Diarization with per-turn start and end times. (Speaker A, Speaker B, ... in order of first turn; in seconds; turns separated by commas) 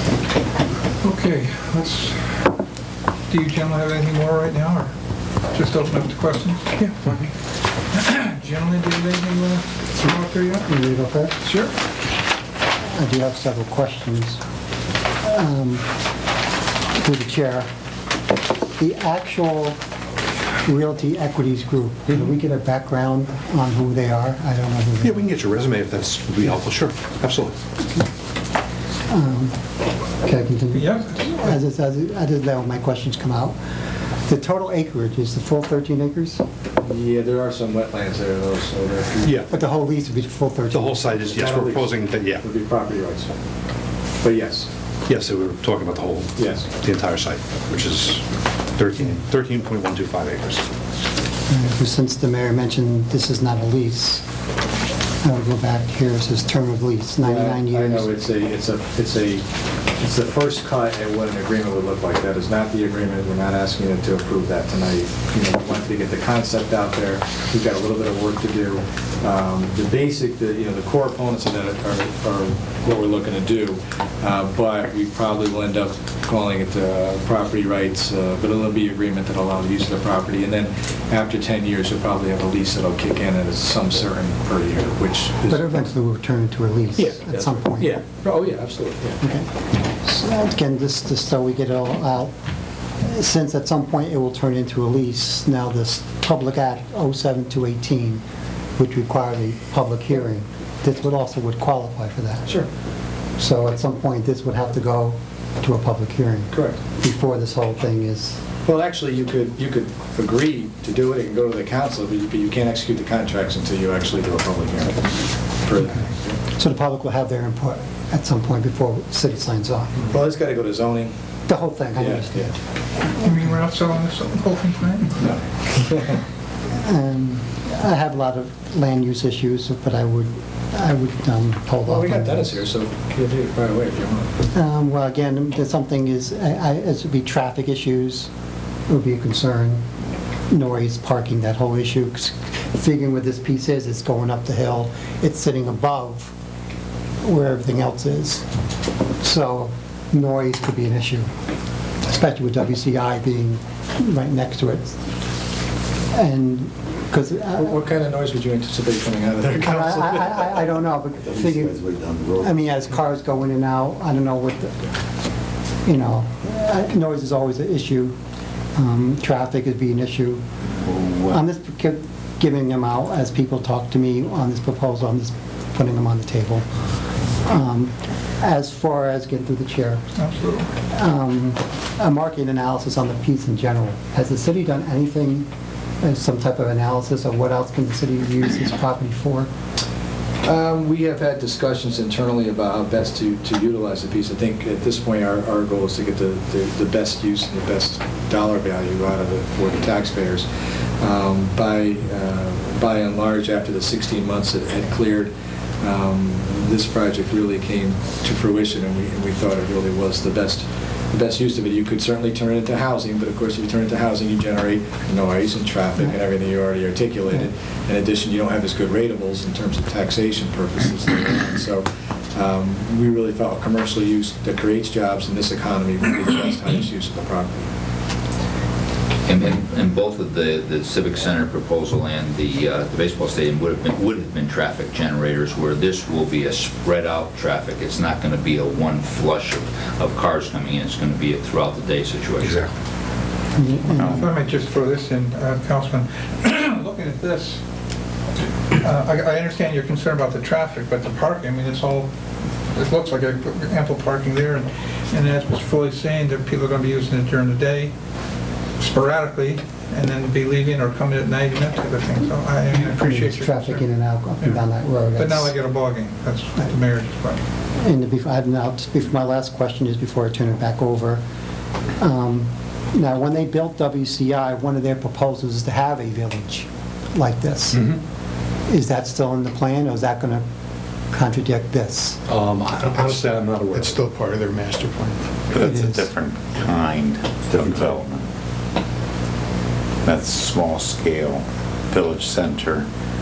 Speaker A: 1.0-2.4, Speaker A: 3.3-4.9, Speaker A: 5.5-6.9, Speaker A: 7.9-10.6, Speaker B: 10.7-11.3, Speaker A: 11.4-11.7, Speaker B: 12.9-14.4, Speaker B: 15.2-15.9, Speaker B: 17.0-17.7, Speaker B: 18.8-19.8, Speaker B: 20.6-25.2, Speaker C: 25.0-27.5, Speaker B: 29.1-29.6, Speaker B: 30.2-33.5, Speaker A: 30.7-31.1, Speaker B: 34.3-36.4, Speaker D: 36.8-39.5, Speaker C: 39.2-39.5, Speaker B: 39.5-41.1, Speaker C: 40.7-42.4, Speaker D: 41.3-43.3, Speaker D: 44.2-44.7, Speaker C: 45.1-48.2, Speaker D: 46.4-46.7, Speaker C: 48.8-50.6, Speaker B: 51.5-54.2, Speaker B: 55.2-58.1, Speaker D: 57.2-59.5, Speaker D: 60.0-85.7, Speaker B: 85.5-88.0, Speaker D: 87.0-89.2, Speaker B: 89.2-89.5, Speaker B: 90.0-92.3, Speaker B: 93.0-98.2, Speaker B: 98.8-102.5, Speaker B: 103.4-108.4, Speaker D: 106.5-106.8, Speaker D: 108.7-116.4, Speaker B: 116.5-120.1, Speaker D: 120.0-121.1, Speaker B: 121.5-122.5, Speaker D: 122.0-122.5, Speaker A: 123.2-125.2, Speaker D: 125.2-126.2, Speaker B: 126.7-132.6, Speaker D: 131.8-134.3, Speaker B: 134.5-138.3, Speaker B: 138.9-139.8, Speaker B: 140.5-146.3, Speaker B: 147.2-148.4, Speaker B: 149.2-151.3, Speaker B: 152.0-155.0, Speaker B: 156.1-157.8, Speaker D: 157.6-160.5, Speaker B: 159.5-161.8, Speaker E: 161.8-162.4, Speaker B: 162.4-164.8, Speaker B: 165.8-168.1, Speaker B: 168.7-170.4, Speaker B: 171.1-176.6, Speaker B: 177.4-180.0, Speaker A: 180.2-180.7, Speaker B: 180.9-185.5, Speaker B: 186.0-189.5, Speaker D: 190.4-200.5, Speaker D: 201.0-205.3, Speaker D: 205.8-227.7, Speaker F: 229.2-242.6, Speaker C: 242.4-242.7, Speaker B: 243.5-244.3, Speaker A: 244.0-247.6, Speaker A: 248.7-252.1, Speaker A: 252.7-257.9, Speaker A: 258.8-263.8, Speaker B: 262.7-265.5, Speaker A: 265.1-267.4, Speaker B: 267.8-271.2, Speaker B: 272.0-277.9, Speaker B: 278.7-280.4, Speaker B: 281.1-282.2, Speaker C: 282.3-284.0, Speaker E: 283.7-285.3, Speaker G: 285.5-288.2, Speaker B: 285.6-286.1, Speaker G: 290.0-292.9